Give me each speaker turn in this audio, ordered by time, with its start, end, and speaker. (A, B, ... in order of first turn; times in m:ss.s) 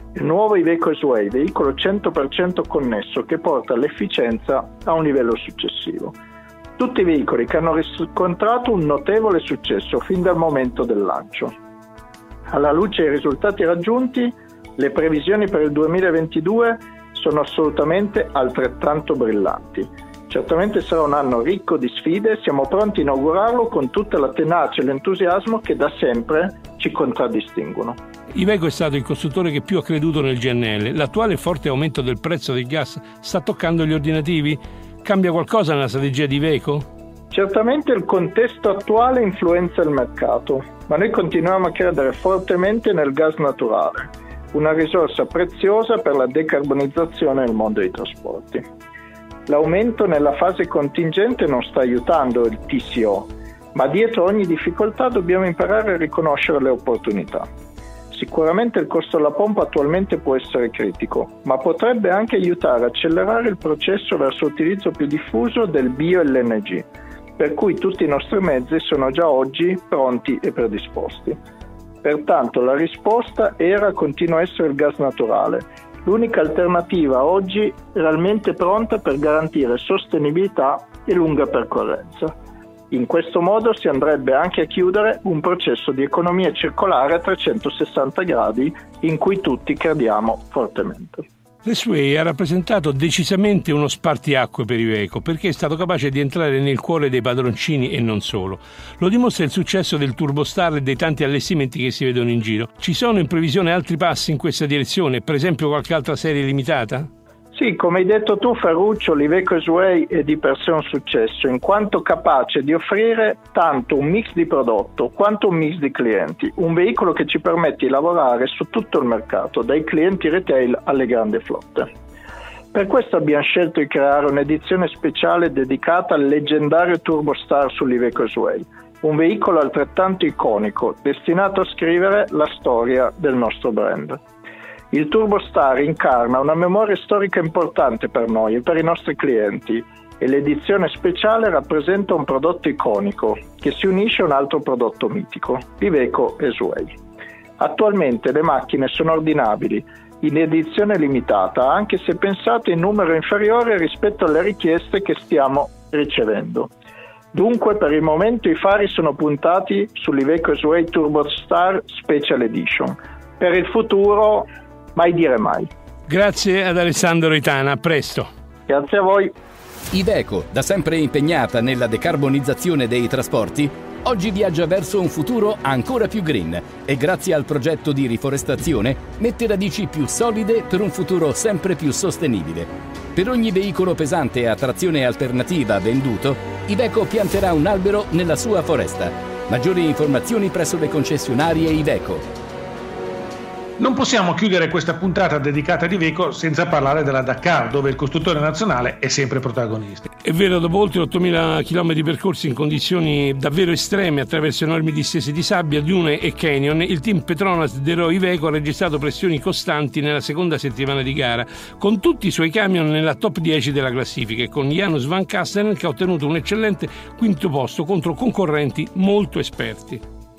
0:00.2-0:06.2 A
0:06.8-0:11.5 A
0:12.5-0:28.0 A
0:28.4-0:36.9 B
0:37.3-0:48.6 A
0:49.5-0:57.5 A
0:58.1-1:06.9 A
1:07.4-1:11.4 A
1:12.0-1:22.3 A
1:22.9-1:31.2 A
1:31.6-1:47.1 B
1:47.5-2:01.9 A
2:02.7-2:14.2 A
2:14.9-2:26.9 A
2:27.6-2:36.7 A
2:37.3-2:45.7 A
2:46.1-2:48.3 B
2:48.7-2:49.3 A
2:49.9-3:12.2 C
3:13.8-3:20.0 D
3:20.2-3:40.0 B